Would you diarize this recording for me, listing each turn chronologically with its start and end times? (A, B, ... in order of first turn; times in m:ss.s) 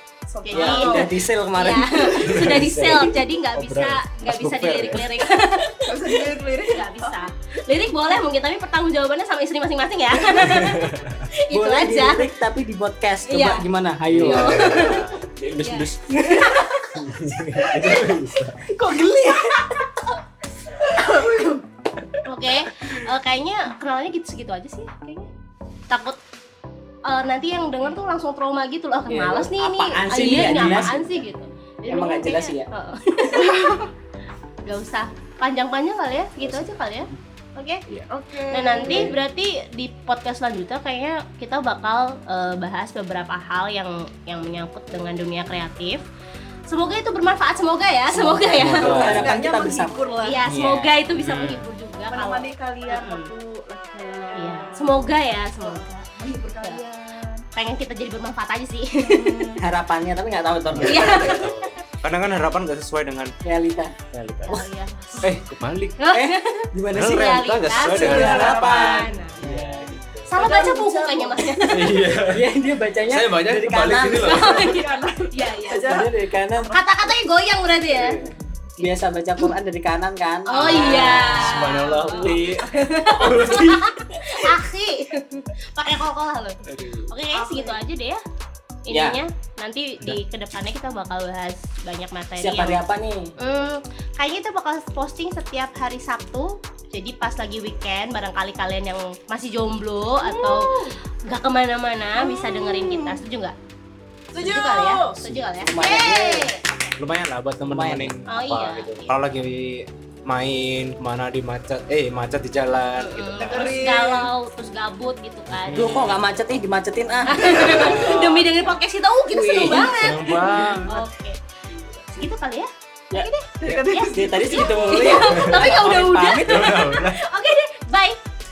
0:00.3-0:01.1 A
0:00.4-0:12.3 B
0:00.5-0:02.2 C
0:02.2-0:05.1 D
0:05.8-0:07.2 A
0:10.5-0:11.3 D
0:11.5-0:15.0 C
0:13.2-0:13.6 B
0:14.1-0:16.1 D
0:14.2-0:15.0 B
0:15.6-0:16.8 B
0:16.1-0:18.1 C
0:17.0-0:18.7 D
0:18.7-0:19.6 C
0:20.8-0:21.6 A
0:22.2-0:25.3 B
0:25.9-0:26.2 B
0:27.1-0:33.9 B
0:29.1-0:31.1 C
0:31.9-0:32.7 C
0:34.6-0:37.8 B
0:36.4-0:36.7 C
0:38.1-0:39.1 A
0:38.5-0:46.0 B
0:46.7-0:49.0 B
0:48.1-0:50.0 C
0:48.6-0:49.3 D
0:48.7-0:50.4 A
0:50.2-0:53.3 B
0:50.4-0:51.7 D
0:52.1-0:55.0 A
0:54.3-0:56.1 B
0:55.6-0:57.4 A
0:57.6-0:59.5 B
0:59.0-0:59.7 A
0:59.6-1:01.4 C
1:00.7-1:03.3 D
1:00.9-1:01.7 B
1:03.4-1:04.7 C
1:04.1-1:04.6 D
1:04.5-1:05.4 B
1:05.2-1:06.0 D
1:06.0-1:09.4 B
1:06.1-1:07.4 C
1:06.9-1:10.3 D
1:07.8-1:09.2 A
1:09.4-1:10.0 C
1:10.3-1:12.0 B
1:10.4-1:11.6 A
1:11.7-1:12.5 D
1:12.3-1:14.4 C
1:13.0-1:14.8 D
1:14.2-1:16.0 B
1:14.4-1:16.1 A
1:15.7-1:16.8 C
1:16.6-1:18.2 B
1:17.9-1:21.4 C
1:18.8-1:19.5 B
1:20.5-1:28.2 B
1:20.5-1:22.2 A
1:20.8-1:23.9 D
1:26.6-1:27.1 D
1:27.3-1:27.8 A
1:28.8-1:32.8 B
1:28.9-1:29.2 C
1:32.4-1:33.3 C
1:33.4-1:43.6 B
1:40.2-1:40.9 A
1:42.2-1:43.2 A
1:44.3-1:45.2 A
1:44.3-1:46.6 B
1:45.6-1:46.6 C
1:45.8-1:46.6 A
1:47.0-1:53.8 D
1:47.6-1:48.2 C
1:48.3-1:49.2 B
1:53.0-1:56.2 B
1:53.3-1:54.3 A
1:55.5-1:56.1 D
1:55.7-1:58.5 C
1:57.3-2:01.4 B
1:57.6-1:58.2 D
1:59.3-2:00.1 C
1:59.8-2:01.0 D
2:00.5-2:00.9 A
2:02.1-2:08.2 B
2:03.6-2:05.2 A
2:03.6-2:03.9 D
2:04.1-2:06.7 C
2:05.3-2:05.6 D
2:05.8-2:06.0 A
2:06.4-2:07.2 D